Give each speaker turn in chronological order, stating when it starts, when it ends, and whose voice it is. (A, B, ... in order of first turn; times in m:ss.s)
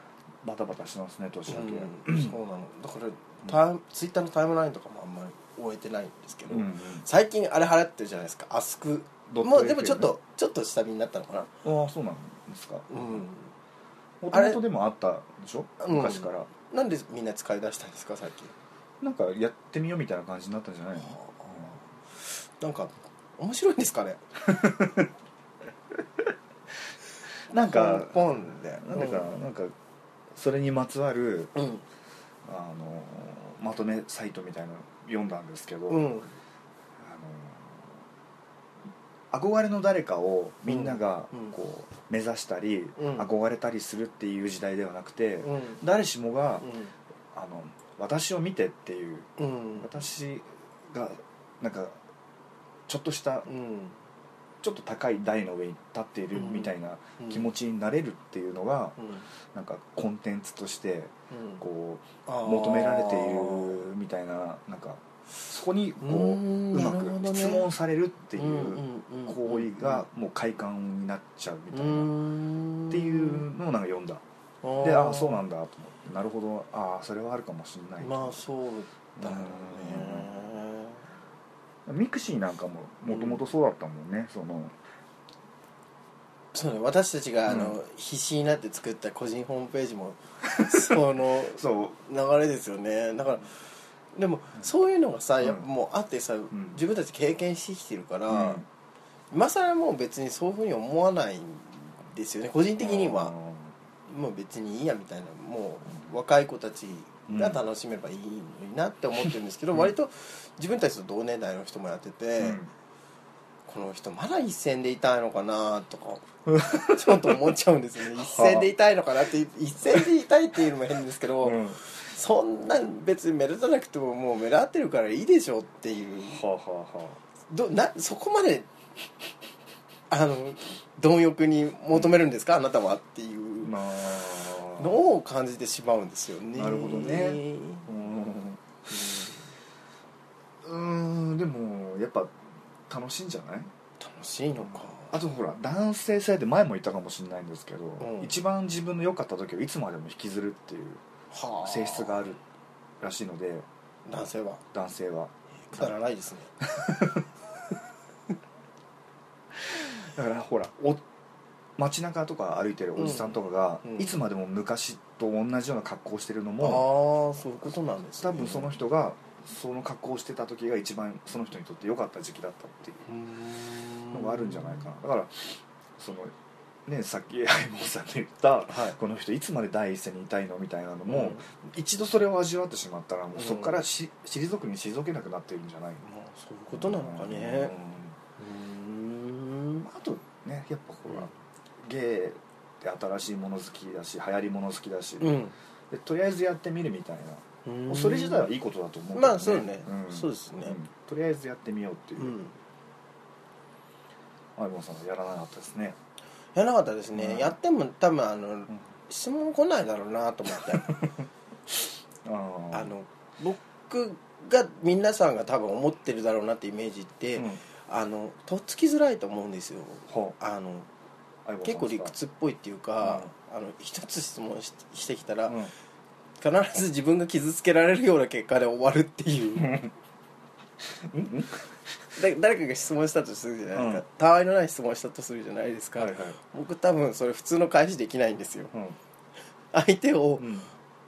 0:00.4-0:02.3 A
0:01.5-0:11.5 B
0:06.5-0:07.0 A
0:09.3-0:10.1 A
0:11.6-0:13.2 A
0:12.9-0:13.5 B
0:14.2-0:16.5 A
0:14.3-0:14.6 B
0:15.8-0:18.5 B
0:19.0-0:21.7 A
0:21.0-0:24.2 B
0:24.4-0:25.1 A
0:27.5-0:29.7 A
0:27.6-0:29.4 B
0:30.3-0:31.5 A
0:31.6-0:31.8 B
0:32.4-0:36.1 A
0:35.9-0:36.4 B
0:37.0-0:37.9 A
0:39.3-0:46.7 A
0:40.7-0:41.5 B
0:43.0-0:43.3 B
0:45.4-0:45.8 B
0:46.6-0:46.9 B
0:47.3-0:52.0 A
0:49.4-0:50.0 B
0:52.9-0:53.5 A
0:53.4-0:54.0 B
0:54.6-0:59.0 A
0:56.3-0:57.5 B
0:59.0-0:59.3 B
0:59.5-1:12.1 A
1:01.3-1:01.6 B
1:02.2-1:03.8 B
1:06.0-1:07.7 B
1:08.3-1:10.0 B
1:11.7-1:13.4 B
1:12.9-1:14.2 A
1:14.6-1:15.4 B
1:14.8-1:18.4 A
1:18.0-1:21.0 B
1:19.2-1:20.4 A
1:21.8-1:24.8 A
1:23.1-1:23.4 B
1:26.5-1:33.5 B
1:27.5-1:27.8 A
1:30.5-1:31.0 A
1:31.5-1:32.0 A
1:34.1-1:38.6 B
1:35.4-1:35.6 A
1:36.5-1:36.8 A
1:38.3-1:38.6 A
1:39.3-1:43.3 B
1:42.8-1:43.7 A
1:44.1-1:52.6 B
1:47.3-1:47.6 A
1:52.4-1:52.7 A
1:53.7-2:06.4 B
1:56.5-1:57.5 A
1:58.1-1:58.7 A
2:01.4-2:01.8 A
2:06.3-2:07.2 A
2:07.5-2:08.7 B
2:10.1-2:13.8 B
2:13.6-2:15.0 A
2:14.7-2:17.9 B
2:16.5-2:18.6 A
2:18.9-2:19.5 B
2:20.6-2:22.4 A
2:22.9-2:23.7 A
2:24.0-2:25.2 B
2:24.6-2:31.0 A
2:28.0-2:28.4 B
2:31.3-2:32.2 B
2:31.6-2:32.4 A
2:33.0-2:33.7 A
2:34.0-2:34.6 B
2:34.7-2:35.9 A
2:35.7-2:36.5 B
2:36.6-2:37.2 A
2:39.5-2:41.0 A
2:41.8-2:46.9 A
2:43.0-2:44.2 B
2:46.6-2:48.7 B
2:48.2-2:53.0 A
2:53.0-2:54.9 B
2:54.1-2:56.3 A
2:56.9-3:06.0 A
2:58.7-2:59.0 B
3:01.1-3:01.5 B
3:03.3-3:03.8 B
3:06.0-3:07.7 B
3:06.7-3:08.2 A
3:08.4-3:09.9 B
3:09.8-3:11.3 A
3:11.1-3:11.3 B
3:11.8-3:22.3 A
3:15.2-3:15.5 B
3:17.6-3:18.5 B
3:19.1-3:20.8 B
3:22.2-3:22.5 B
3:24.6-3:26.0 A
3:26.5-3:31.0 B
3:27.1-3:27.6 A
3:32.2-3:32.9 A
3:32.7-3:40.9 B
3:37.4-3:37.6 A
3:40.1-3:40.3 A
3:41.4-3:42.1 A
3:41.6-3:45.6 B
3:43.0-3:43.3 A
3:46.4-3:49.8 B
3:49.6-3:49.9 A
3:51.0-3:51.7 A
3:52.2-3:58.7 B
3:53.7-3:54.0 A
3:56.0-3:56.4 A
3:58.7-3:59.0 A
3:59.7-4:00.5 B
4:00.4-4:00.7 A